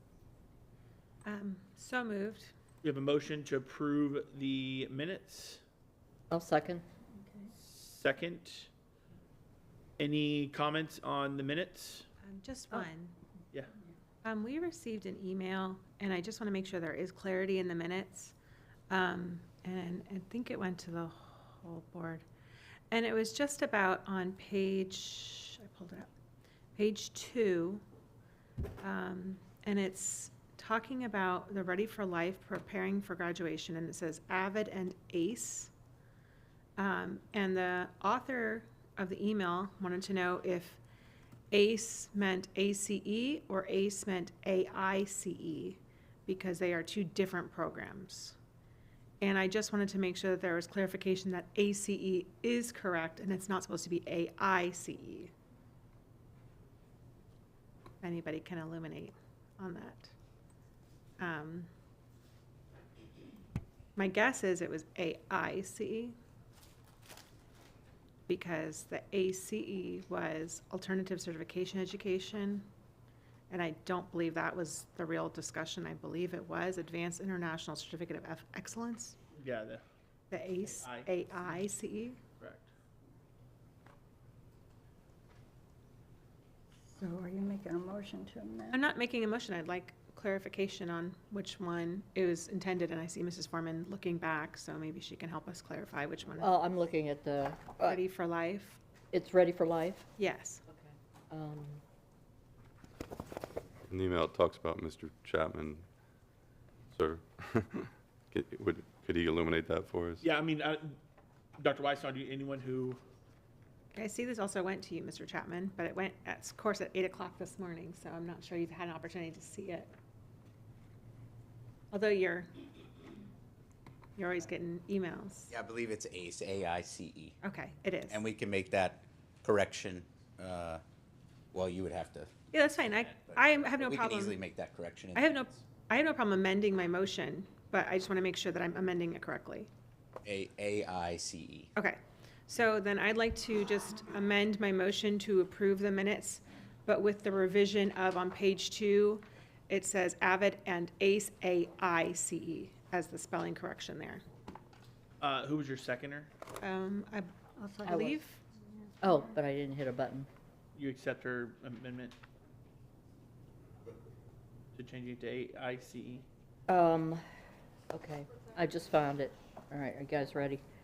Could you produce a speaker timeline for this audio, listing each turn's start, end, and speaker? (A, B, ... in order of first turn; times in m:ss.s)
0:01.2-0:02.5 A
0:02.8-0:05.6 B
0:06.3-0:06.8 C
0:07.6-0:08.7 B
0:10.0-0:12.1 B
0:12.2-0:13.2 A
0:14.2-0:18.4 A
0:18.9-0:22.2 A
0:22.9-0:26.1 A
0:26.8-0:27.8 A
0:28.8-0:35.7 A
0:36.8-0:40.8 A
0:41.5-0:48.4 A
0:49.2-0:55.3 A
0:58.0-1:00.1 A
1:01.2-1:01.7 A
1:04.0-1:06.2 A
1:08.3-1:12.7 A
1:13.5-1:19.2 A
1:19.4-1:19.8 B
1:20.3-1:22.2 A
1:20.6-1:21.1 B
1:22.4-1:22.7 B
1:26.9-1:28.8 D
1:28.7-1:36.5 A
1:36.4-1:38.0 C
1:37.8-1:38.8 A
1:39.1-1:40.1 C
1:40.2-1:40.6 A
1:40.7-1:41.8 C
1:43.9-1:45.9 E
1:46.9-1:50.2 E
1:50.2-1:51.0 B
1:51.6-1:53.0 B
1:53.9-1:59.9 A
2:01.9-2:02.5 A
2:04.2-2:05.5 A
2:05.5-2:07.4 F
2:07.4-2:08.2 A
2:08.1-2:10.8 F
2:11.5-2:12.4 F
2:12.5-2:14.4 A
2:13.4-2:15.6 F
2:15.2-2:19.7 A
2:20.2-2:21.7 F
2:21.8-2:34.2 A
2:35.2-2:36.3 B
2:36.6-2:38.4 A
2:37.6-2:38.1 D
2:37.9-2:38.1 C
2:39.0-2:40.3 C
2:40.8-2:42.2 B
2:44.8-2:46.2 B
2:46.7-2:47.2 C
2:47.9-2:50.6 C